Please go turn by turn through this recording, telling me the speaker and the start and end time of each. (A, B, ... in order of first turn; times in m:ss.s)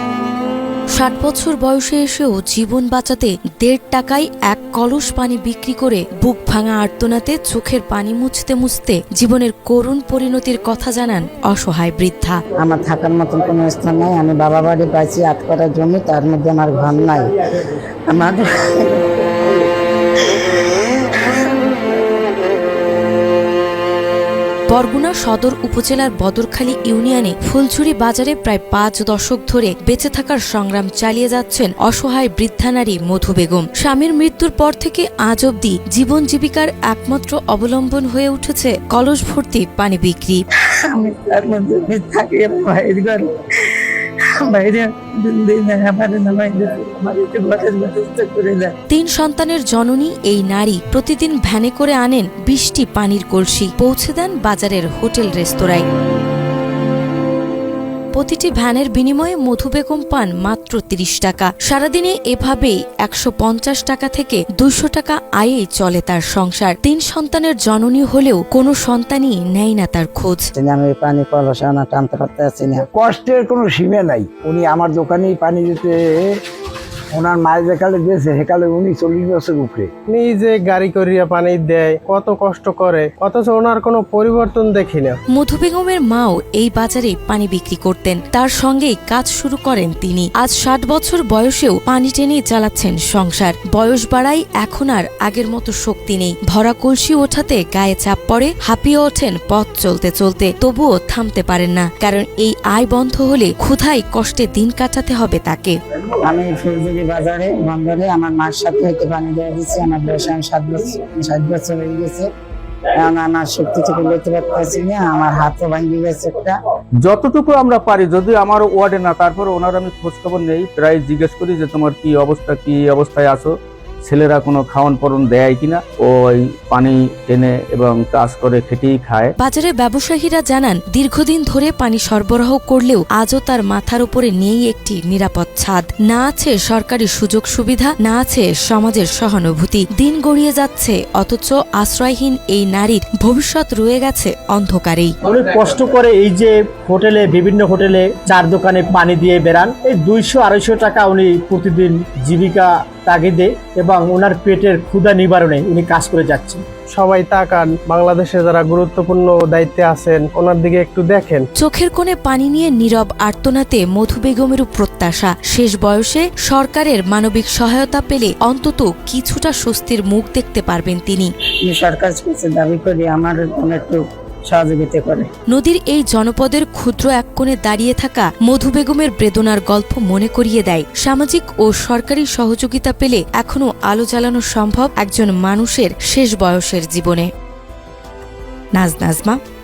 0:01.0-0:12.4 A
0:12.6-0:17.3 B
0:18.1-0:19.1 B
0:20.4-0:20.6 B
0:24.7-0:40.4 A
0:40.9-0:43.2 B
0:44.4-0:48.7 B
0:48.9-0:55.8 A
0:58.1-1:10.5 A
1:10.6-1:12.8 B
1:12.9-1:16.2 C
1:17.1-1:19.9 C
1:20.1-1:25.2 D
1:25.3-1:45.8 A
1:46.2-1:52.3 B
1:53.0-1:56.6 B
1:57.0-2:03.5 E
2:04.0-2:09.3 E
2:09.4-2:25.2 A
2:25.2-2:36.6 F
2:36.9-2:41.5 D
2:41.6-2:51.3 A
2:51.6-2:55.3 B
2:55.5-3:07.3 A
3:08.8-3:09.4 A